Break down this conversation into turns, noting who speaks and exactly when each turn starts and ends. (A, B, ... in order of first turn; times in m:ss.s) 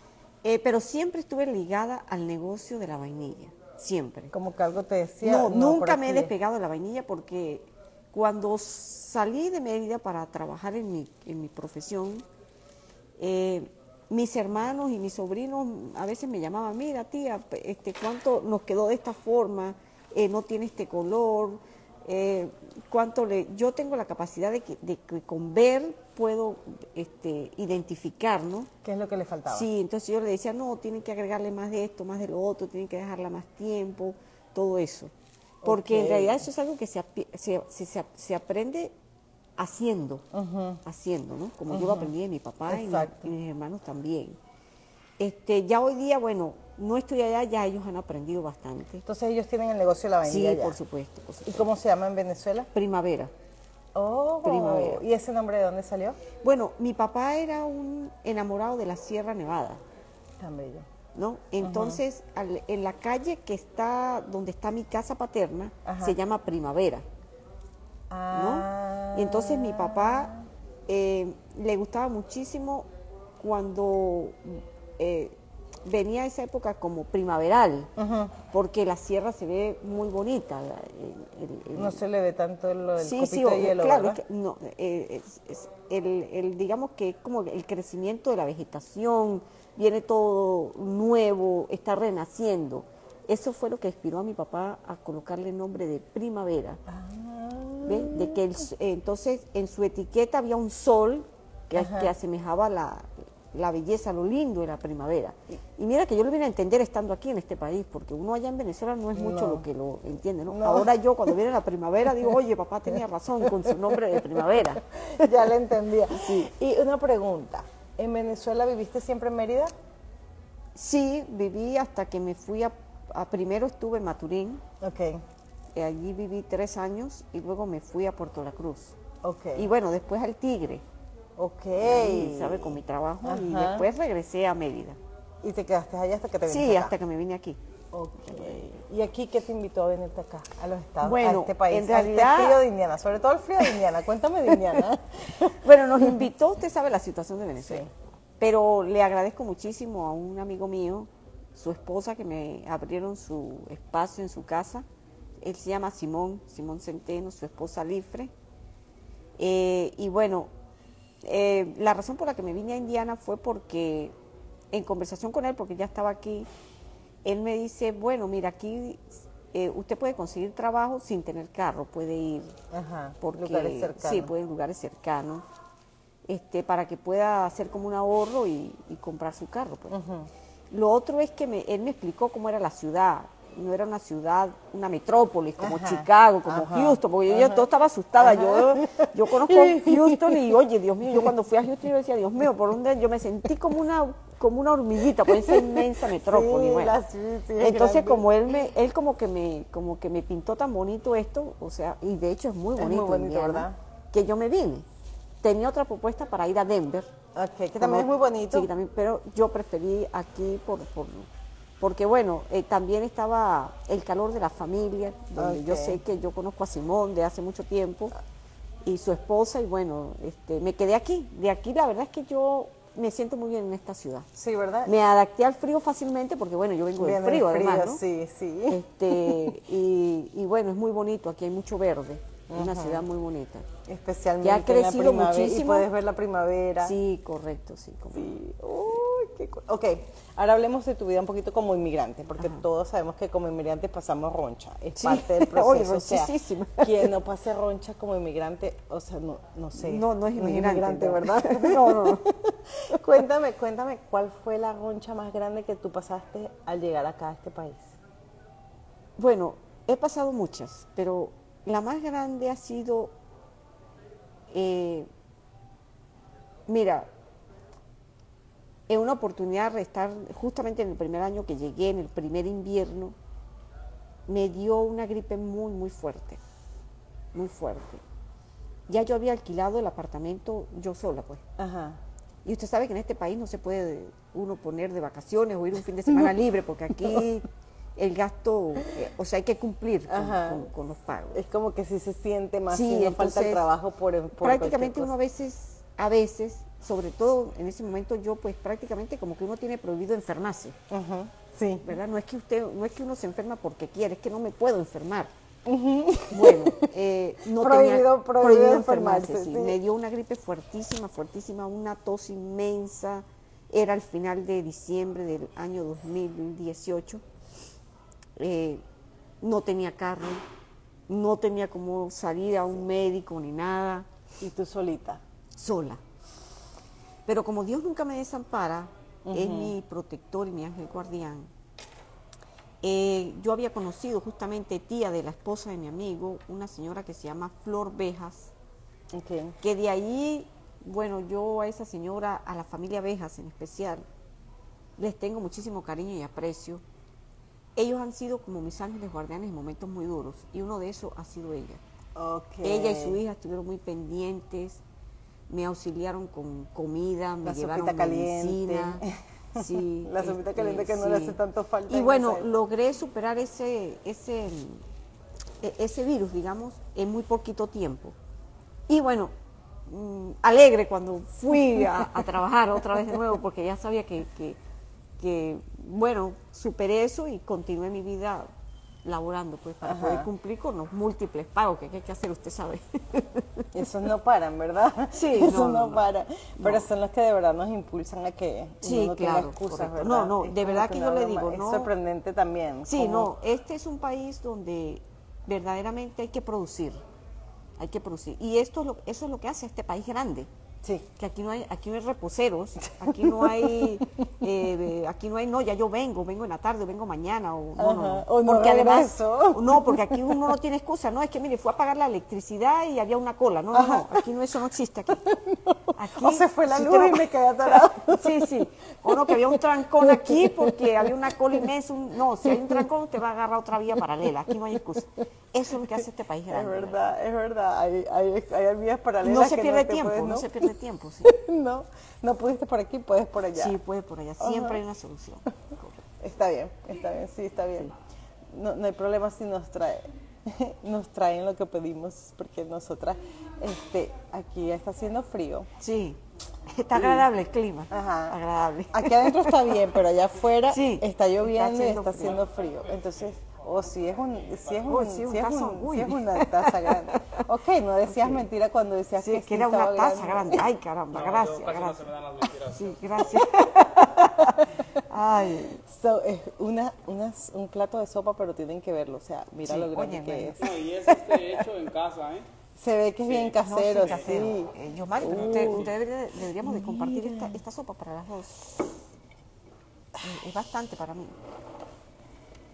0:00.4-0:04.3 A
0:04.3-0:06.3 B
0:05.2-0:12.2 A
0:13.2-0:28.7 A
0:28.8-0:29.7 B
0:29.5-0:35.1 A
0:35.6-0:36.4 B
0:35.6-0:38.9 A
0:39.6-0:40.2 A
0:40.3-0:40.8 B
0:40.8-0:44.4 A
0:41.7-0:42.1 B
0:42.7-0:43.3 B
0:45.2-0:49.0 A
0:49.0-0:50.8 B
0:50.2-0:51.7 A
0:51.4-0:52.7 B
0:52.7-0:53.3 A
0:53.9-0:56.2 B
0:54.4-0:55.0 A
0:56.4-0:59.8 A
1:00.4-1:00.9 B
1:01.1-1:07.0 A
1:01.6-1:02.0 B
1:05.8-1:06.2 B
1:08.1-1:10.4 B
1:08.3-1:10.3 A
1:10.9-1:12.9 A
1:13.4-1:17.9 A
1:18.0-1:18.4 B
1:18.5-1:22.0 A
1:21.7-1:24.2 B
1:23.0-1:36.8 A
1:36.9-1:38.4 B
1:37.8-1:55.5 A
1:41.8-1:42.1 B
1:49.1-1:49.6 B
1:50.5-1:50.9 B
1:53.5-1:54.2 B
1:54.9-1:59.7 B
1:56.1-1:56.5 A
2:00.7-2:04.6 A
2:04.8-2:05.2 B
2:05.7-2:08.9 A
2:09.2-2:09.7 B
2:09.5-2:10.8 A
2:11.4-2:13.9 B
2:11.8-2:15.0 A
2:15.4-2:16.9 B
2:16.5-2:17.6 A
2:17.9-2:26.1 B
2:18.3-2:18.6 A
2:21.0-2:22.6 A
2:24.5-2:24.8 A
2:25.5-2:27.9 A
2:27.6-2:27.9 B
2:28.4-2:34.8 A
2:35.4-2:38.3 A
2:39.4-2:40.5 A
2:41.2-2:44.1 A
2:44.7-2:46.5 A
2:47.2-2:52.6 A
2:52.7-2:54.3 B
2:53.2-2:55.4 A
2:56.3-2:59.9 A
2:59.9-3:00.3 B
3:00.7-3:17.0 A
3:05.6-3:07.7 B
3:08.2-3:10.5 B
3:15.2-3:18.3 B
3:17.6-3:24.8 A
3:22.8-3:23.8 B
3:25.4-3:27.1 A
3:27.3-3:28.7 B
3:27.8-3:31.3 A
3:31.8-3:38.1 A
3:35.4-3:36.0 B
3:38.8-3:44.3 A
3:44.4-3:44.9 B
3:44.8-3:48.0 A
3:47.0-3:49.6 B
3:48.7-3:53.7 A
3:52.5-3:53.0 B
3:53.8-3:56.9 B
3:54.4-3:55.9 A
3:56.8-3:58.3 A
3:58.1-4:18.0 B
4:02.4-4:02.6 A
4:05.0-4:07.1 A
4:09.7-4:12.3 A
4:19.2-4:23.1 A
4:24.5-4:25.1 A
4:26.7-4:27.1 A
4:28.9-4:33.2 A
4:34.3-4:36.4 A
4:37.3-4:38.0 A
4:38.9-4:41.4 A
4:41.6-4:42.0 B
4:42.4-4:51.4 A
4:50.1-4:50.6 B
4:51.3-4:55.1 B
4:52.7-4:53.7 A
4:54.4-5:00.8 A
5:00.9-5:01.9 B
5:01.8-5:05.3 A
5:05.6-5:06.9 B
5:06.3-5:17.2 A
5:07.5-5:09.8 B
5:18.4-5:18.8 A
5:19.4-5:20.4 A
5:21.1-5:24.1 A
5:24.4-5:25.2 B
5:25.5-5:26.0 A
5:27.2-5:31.5 A
5:29.2-5:29.7 B
5:32.8-5:38.5 A
5:39.1-5:39.6 B
5:39.6-5:44.0 A
5:45.0-5:46.8 A
5:47.8-5:51.8 A
5:52.2-5:53.2 B
5:52.6-5:54.8 A
5:55.5-5:59.0 A
5:57.4-6:02.5 B
5:59.5-6:04.8 A
6:05.6-6:08.2 A
6:08.9-6:09.3 A
6:09.8-6:14.6 A
6:15.2-6:18.5 A
6:19.0-6:23.7 A
6:19.8-6:20.3 B
6:23.7-6:33.3 B
6:25.1-6:26.9 A
6:28.8-6:31.9 A
6:32.8-6:37.0 A
6:37.8-6:40.5 A
6:41.2-6:55.3 A
6:42.9-6:43.9 B
6:47.8-6:50.5 B
6:53.7-6:54.2 B
6:55.2-7:01.3 B
6:55.9-7:07.0 A
7:02.5-7:02.8 B
7:06.5-7:10.7 B
7:09.2-7:11.3 A
7:11.2-7:13.8 B
7:13.5-7:16.0 A
7:14.4-7:14.8 B
7:16.2-7:17.9 B
7:18.5-7:25.7 B
7:25.8-7:30.0 A
7:27.0-7:27.2 B
7:27.9-7:28.4 B
7:28.9-7:40.6 B
7:30.7-7:32.4 A
7:32.4-7:33.1 C
7:34.8-7:37.4 A
7:38.1-7:38.5 A
7:39.2-7:42.0 A
7:41.1-7:43.5 C
7:42.6-7:45.8 A
7:44.4-7:44.8 B
7:45.8-7:50.8 B
7:49.6-7:50.6 A
7:50.6-7:52.5 C
7:52.8-7:55.9 B
7:53.2-7:54.2 C
7:53.6-7:58.7 A
7:55.3-7:55.9 C
7:56.6-7:57.6 B
8:00.2-8:01.4 A